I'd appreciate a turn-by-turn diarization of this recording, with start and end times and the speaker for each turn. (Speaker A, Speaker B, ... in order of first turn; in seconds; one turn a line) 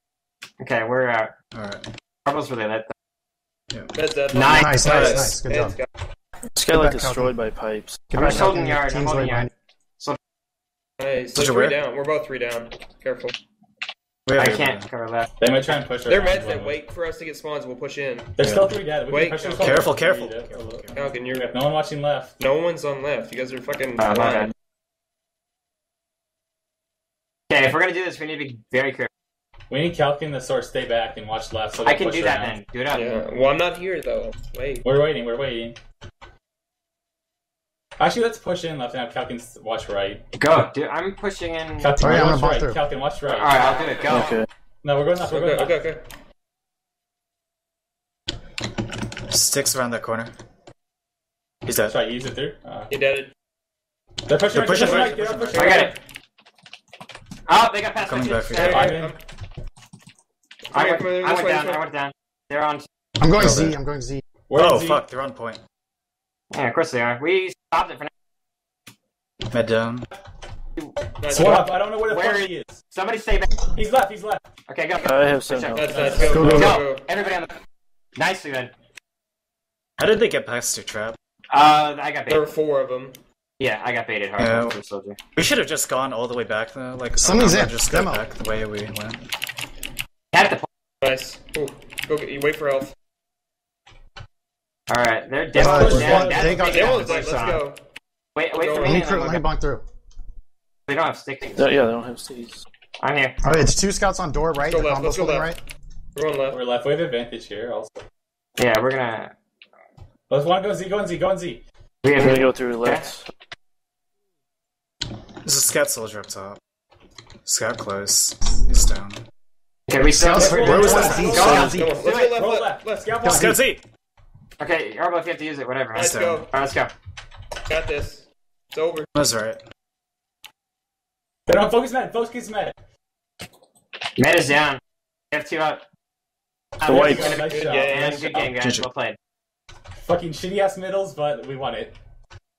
Speaker A: 0.6-1.4
Speaker B: 1.5-1.9
Speaker A: 2.3-2.9
Speaker C: 3.9-5.9
Speaker A: 4.3-5.0
Speaker D: 4.5-5.8
Speaker B: 4.8-5.3
Speaker E: 6.6-8.1
Speaker D: 6.7-7.3
Speaker D: 8.1-9.5
Speaker A: 8.2-10.2
Speaker C: 11.0-13.3
Speaker B: 11.3-11.8
Speaker B: 14.3-14.9
Speaker A: 14.4-15.3
Speaker F: 15.4-16.8
Speaker C: 16.1-18.4
Speaker F: 18.4-22.4
Speaker B: 18.4-18.7
Speaker C: 19.1-19.9
Speaker B: 19.6-21.1
Speaker C: 20.9-21.5
Speaker C: 22.4-24.5
Speaker A: 24.0-24.5
Speaker A: 27.5-29.1
Speaker F: 29.7-32.5
Speaker A: 31.9-33.2
Speaker C: 32.9-34.8
Speaker F: 34.8-35.8
Speaker F: 38.0-40.2
Speaker A: 40.4-41.9
Speaker F: 41.8-43.5
Speaker D: 42.0-42.8
Speaker A: 43.3-44.4
Speaker E: 44.1-44.5
Speaker F: 44.8-45.8
Speaker C: 45.2-46.0
Speaker B: 49.3-50.3
Speaker B: 51.6-52.0
Speaker F: 51.9-52.9
Speaker C: 52.9-53.3
Speaker F: 54.3-55.9
Speaker B: 54.5-55.7
Speaker C: 54.8-55.9
Speaker A: 55.5-56.0
Speaker A: 57.5-59.0
Speaker B: 58.0-58.9
Speaker C: 58.6-59.2
Speaker F: 58.6-59.2
Speaker C: 60.7-61.8
Speaker A: 60.7-62.9
Speaker D: 63.2-64.2
Speaker B: 63.4-63.8
Speaker F: 64.5-65.0
Speaker B: 64.5-65.6
Speaker A: 66.5-68.1
Speaker B: 69.5-70.1
Speaker A: 70.8-73.5
Speaker C: 71.2-71.7
Speaker F: 71.3-72.8
Speaker F: 73.7-74.5
Speaker A: 74.7-77.5
Speaker E: 75.0-76.2
Speaker C: 75.7-77.0
Speaker F: 75.8-76.8
Speaker D: 76.2-76.8
Speaker A: 78.2-78.7
Speaker B: 80.0-81.2
Speaker A: 81.5-82.5
Speaker C: 82.3-83.2
Speaker A: 83.6-85.2
Speaker B: 84.4-84.8
Speaker B: 85.3-89.2
Speaker D: 87.2-88.2
Speaker A: 90.3-90.6
Speaker C: 91.0-92.9
Speaker A: 94.9-97.6
Speaker D: 95.5-97.6
Speaker F: 95.6-96.6
Speaker C: 95.9-97.8
Speaker A: 98.4-99.4
Speaker C: 98.4-99.3
Speaker D: 98.8-99.8
Speaker A: 100.9-101.7
Speaker E: 101.6-102.6
Speaker A: 103.0-103.4
Speaker D: 103.4-105.6
Speaker C: 104.7-105.5
Speaker C: 106.2-106.6
Speaker F: 106.5-108.0
Speaker A: 108.6-109.3
Speaker F: 110.3-111.6
Speaker A: 112.0-113.0
Speaker E: 112.2-113.3
Speaker B: 115.4-116.6
Speaker B: 117.5-119.2
Speaker A: 119.9-122.4
Speaker D: 120.0-121.9
Speaker F: 120.2-123.6
Speaker C: 120.8-123.2
Speaker E: 121.4-121.8
Speaker B: 123.2-123.8
Speaker D: 123.2-123.5
Speaker A: 124.6-126.9
Speaker C: 125.9-126.5
Speaker B: 126.0-126.5
Speaker C: 127.7-129.1
Speaker B: 129.2-129.6
Speaker F: 131.5-132.8
Speaker A: 134.2-134.8
Speaker A: 135.3-135.8
Speaker F: 136.8-138.4
Speaker E: 136.8-137.4
Speaker A: 137.0-137.3
Speaker C: 137.0-138.3
Speaker A: 137.8-139.2
Speaker B: 138.5-138.8
Speaker F: 140.0-142.0